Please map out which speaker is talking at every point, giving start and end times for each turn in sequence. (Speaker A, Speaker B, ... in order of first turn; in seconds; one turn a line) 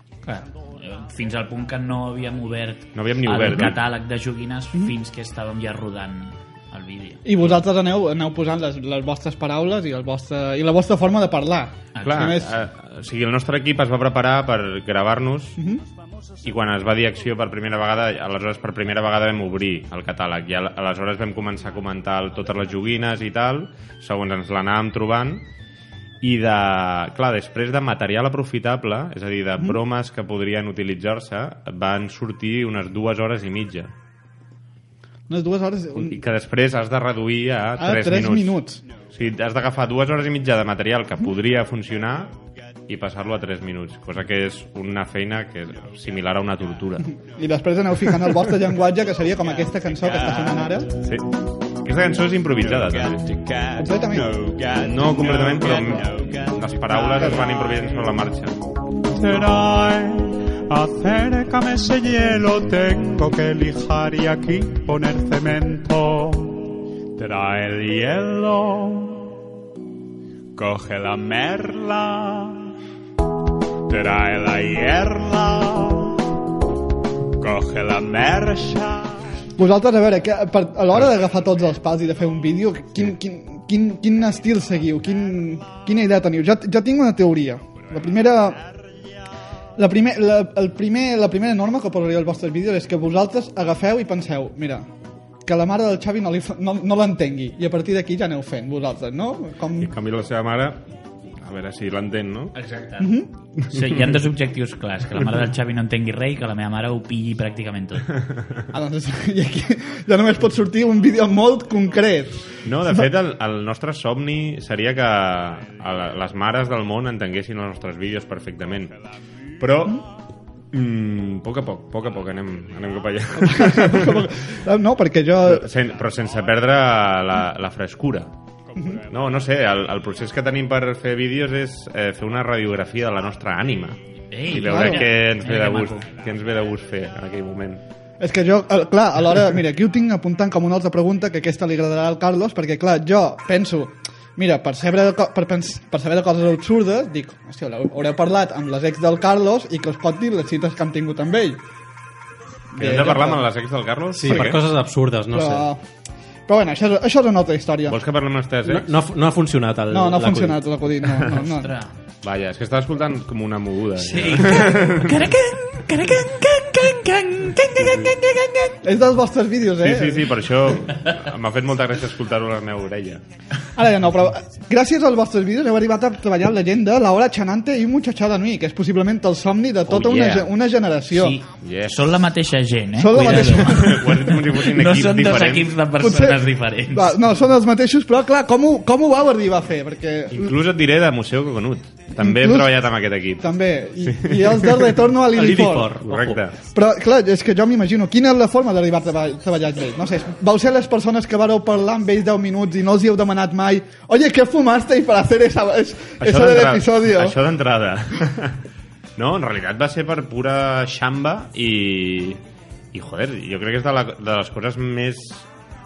Speaker A: 0.2-7.2
Speaker B: 2.9-3.8
Speaker C: 7.2-12.5
Speaker A: 11.9-12.4
Speaker B: 12.0-15.6
Speaker C: 15.6-15.8
Speaker B: 16.4-25.5
Speaker B: 26.2-33.9
Speaker C: 35.3-36.2
Speaker B: 36.0-47.1
Speaker C: 37.8-38.8
Speaker C: 47.1-50.9
Speaker B: 51.0-53.3
Speaker C: 53.8-54.4
Speaker D: 54.4-55.6
Speaker B: 54.8-58.6
Speaker D: 59.1-69.3
Speaker D: 70.5-72.7
Speaker D: 73.9-76.2
Speaker D: 77.4-79.2
Speaker C: 79.6-88.6
Speaker C: 89.8-94.9
Speaker C: 95.5-99.9
Speaker B: 99.8-100.8
Speaker B: 101.4-102.5
Speaker A: 102.5-103.1
Speaker C: 103.0-103.3
Speaker B: 103.7-104.0
Speaker A: 103.7-108.1
Speaker C: 108.7-113.0
Speaker B: 112.6-119.0
Speaker B: 119.6-120.0
Speaker B: 120.7-124.3
Speaker C: 123.4-125.7
Speaker B: 125.5-128.4
Speaker B: 129.1-137.8
Speaker A: 134.3-136.1
Speaker C: 134.6-135.0
Speaker C: 138.2-151.6
Speaker C: 152.7-153.4
Speaker B: 152.8-154.6
Speaker E: 154.1-155.7
Speaker C: 154.3-154.6
Speaker C: 155.3-155.8
Speaker C: 156.5-158.0
Speaker B: 157.9-158.9
Speaker E: 158.7-160.6
Speaker C: 159.9-161.7
Speaker A: 161.4-161.9
Speaker B: 162.2-165.2
Speaker A: 164.0-168.8
Speaker B: 167.8-168.1
Speaker C: 168.8-170.4
Speaker B: 169.8-173.2
Speaker C: 173.8-181.4
Speaker A: 179.9-180.4
Speaker B: 180.0-180.4
Speaker A: 181.1-187.2
Speaker B: 181.6-182.2
Speaker C: 183.0-184.2
Speaker B: 183.2-185.8
Speaker C: 186.0-190.5
Speaker B: 190.3-194.9
Speaker C: 192.2-192.7
Speaker C: 193.4-195.9
Speaker E: 195.3-196.4
Speaker B: 196.0-196.6
Speaker C: 196.7-207.4
Speaker B: 206.2-208.6
Speaker B: 209.2-212.4
Speaker B: 212.9-215.5